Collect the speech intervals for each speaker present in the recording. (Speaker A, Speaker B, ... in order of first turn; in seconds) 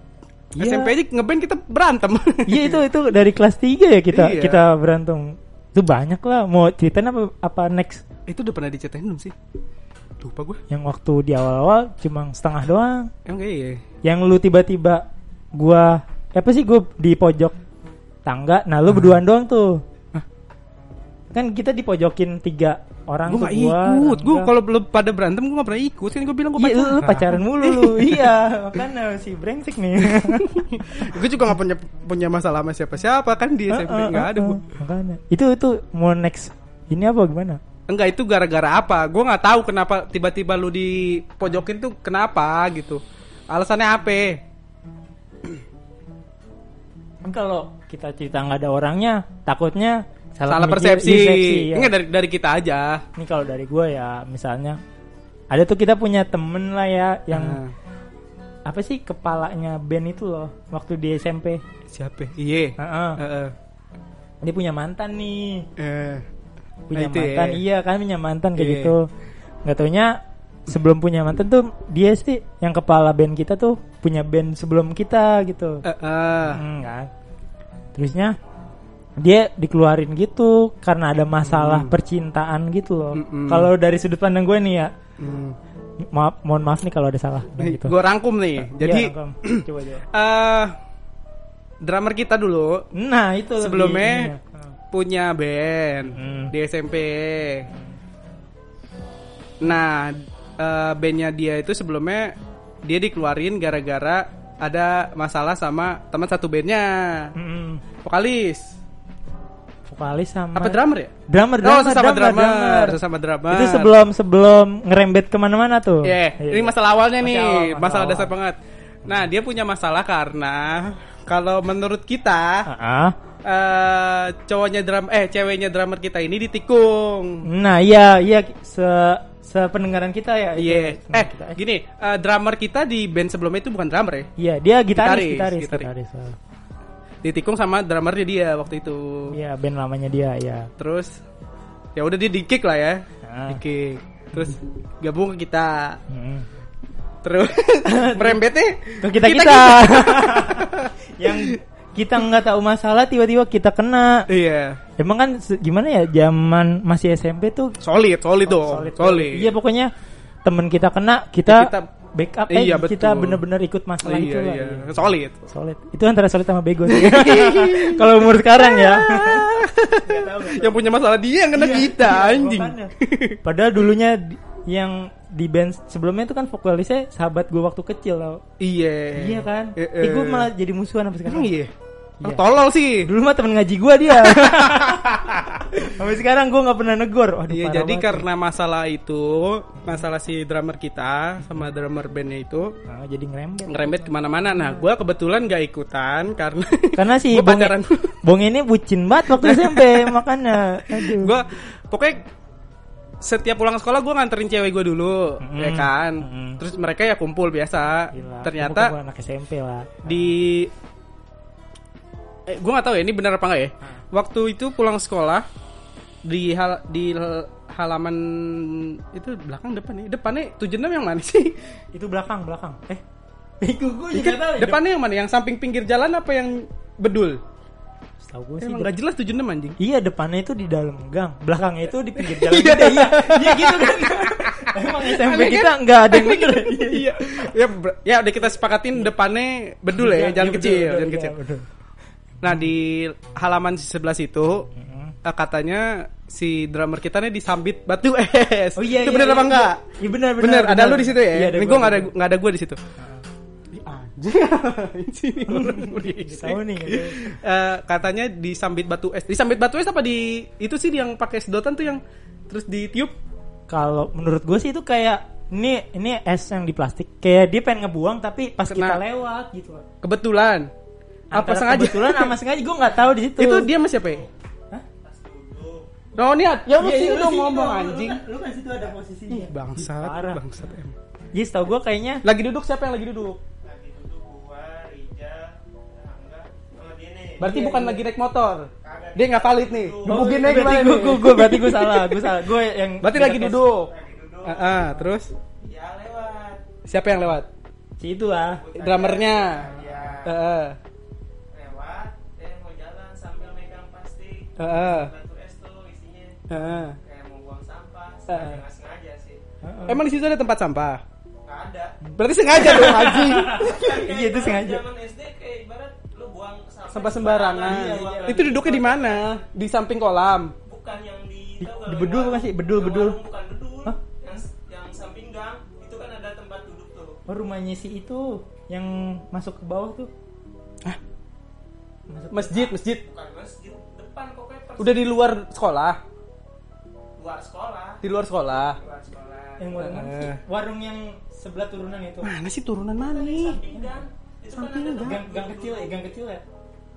Speaker A: 0.5-0.9, 2.5-8.0, 10.7-13.1, 14.0-17.6, 18.2-19.8, 21.3-24.5, 26.6-31.1, 33.7-37.6, 47.2-51.9, 53.1-54.8, 55.5-57.6, 58.7-61.6, 62.8-63.2, 64.4-65.7, 66.9-69.1, 69.6-75.8, 76.5-77.1, 77.9-78.3, 79.2-84.9, 86.0-87.9, 88.6-90.0, 92.9-94.7, 96.0-96.5, 97.7-97.9, 107.3-107.8, 109.9-113.0, 113.5-118.3, 122.7-123.2, 127.4-131.6, 134.4-136.4, 139.3-140.7, 143.2-143.6, 146.1-146.5, 147.8-148.4, 149.0-154.3, 155.0-157.7, 158.4-159.9, 160.4-170.9, 171.5-172.9, 173.4-178.4, 179.2-181.5, 183.0-188.2, 192.9-194.8, 196.9-201.3, 205.4-206.6, 208.1-210.3, 221.9-223.0, 223.6-224.8, 228.2-228.9, 229.8-237.2, 239.9-241.6, 244.7-245.2, 248.8-252.1, 253.0-253.2, 255.5-257.2, 263.7-269.8, 271.3-273.7, 276.7-280.4, 281.3-282.2, 287.4-288.0, 290.1-293.6, 298.0-298.6, 299.7-300.1, 309.6-310.0, 312.0-314.8, 317.6-318.4, 321.6-323.2, 327.3-330.1, 332.1-332.7, 339.6-342.3, 345.0-346.4
Speaker B: 0.5-2.8, 4.1-4.6, 8.3-9.3, 10.2-10.6, 13.2-13.8, 18.9-19.2, 23.3-28.4, 30.0-34.6, 37.9-44.4, 50.5-53.0, 57.3-57.7, 61.9-63.5, 65.8-66.2, 66.9-67.6, 68.5-68.9, 75.8-76.6, 81.4-81.9, 83.1-83.7, 85.2-85.5, 87.6-90.7, 91.8-92.9, 93.6-94.3, 94.9-97.7, 99.6-107.3, 108.0-108.7, 110.5-113.9, 116.0-122.6, 123.4-127.4, 130.6-134.3, 134.9-135.9, 137.2-139.3, 140.8-141.2, 141.9-146.0, 147.2-151.6, 154.3-154.8, 157.8-159.5, 161.5-161.9, 162.5-163.4, 164.0-165.5, 166.9-173.4, 178.6-180.5, 181.2-183.1, 184.1-185.8, 187.5-192.7, 193.7-198.2, 199.4-200.2, 200.8-202.2, 203.2-208.9, 210.0-210.7, 212.5-215.4, 216.2-221.6, 224.1-227.4, 228.6-229.8, 232.2-241.3, 242.4-244.7, 245.2-249.8, 250.4-252.8, 253.7-263.1, 268.7-269.0, 270.0-270.7, 271.3-272.3, 273.4-274.2, 276.1-278.2, 279.3-280.9, 282.2-283.4, 287.4-292.4, 293.0-293.9, 294.4-295.3, 296.8-297.5, 298.7-299.7, 300.2-300.8, 304.6-305.1, 306.5-307.0, 308.3-308.6, 309.9-311.0, 312.2-314.1, 316.9-320.5, 332.3-333.0, 334.8-336.0, 338.0-338.8, 339.8-340.4, 342.2-343.6, 344.5-345.2
Speaker C: 273.9-274.3, 275.0-275.9, 283.6-287.5, 288.8-290.6, 293.7-294.9, 295.6-296.7, 298.5-300.4, 301.5-309.4, 311.4-312.0, 313.3-319.4, 320.6-327.2, 333.0-335.2, 337.2-338.0, 338.7-339.8, 343.0-346.0